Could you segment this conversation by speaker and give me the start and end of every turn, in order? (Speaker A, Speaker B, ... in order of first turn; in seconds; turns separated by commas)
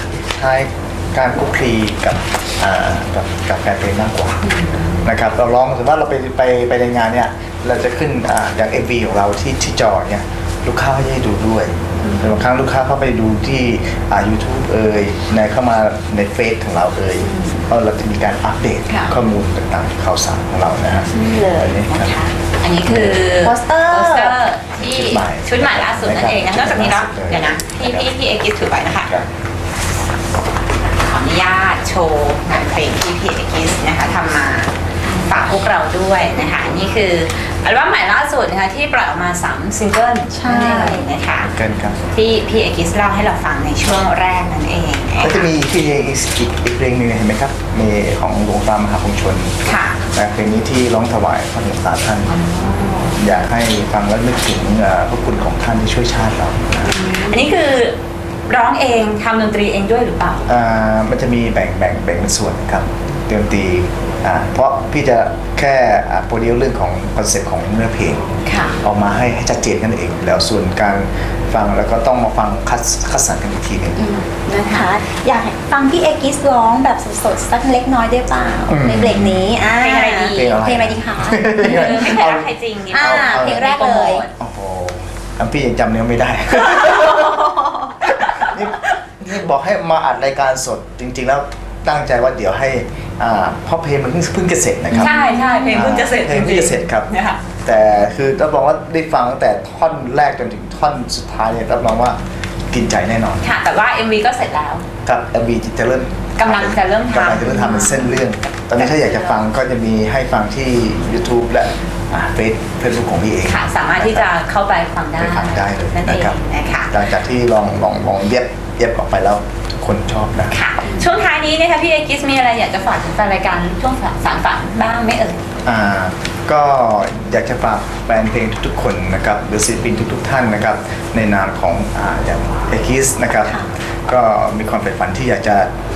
Speaker A: 0.3-22.2, Speaker B: 4.5-5.0, Speaker C: 17.2-17.6, Speaker B: 18.9-19.1, Speaker C: 21.1-22.3, Speaker B: 22.6-29.1, Speaker A: 22.8-23.2, Speaker C: 23.4-24.3, Speaker A: 24.8-28.1, Speaker B: 31.1-41.5, Speaker C: 35.0-35.4, Speaker C: 40.3-41.1, Speaker A: 41.4-42.0, Speaker B: 42.1-45.5, Speaker A: 45.2-49.6, Speaker B: 49.6-50.0, Speaker A: 50.1-52.4, Speaker B: 52.3-53.2, Speaker A: 53.1-56.9, Speaker C: 56.9-57.4, Speaker B: 57.3-58.0, Speaker B: 58.5-60.4, Speaker A: 60.5-74.0, Speaker C: 68.5-68.7, Speaker C: 74.0-82.2, Speaker A: 78.7-79.5, Speaker B: 79.8-80.6, Speaker A: 80.3-83.8, Speaker B: 81.6-84.3, Speaker C: 82.9-84.2, Speaker A: 84.4-87.4, Speaker C: 87.4-87.9, Speaker A: 88.2-103.4, Speaker C: 95.0-96.0, Speaker B: 95.0-97.4, Speaker B: 103.4-104.8, Speaker A: 105.0-114.2, Speaker B: 106.4-109.4, Speaker B: 113.5-116.9, Speaker A: 115.2-120.5, Speaker B: 120.5-125.4, Speaker A: 125.6-135.7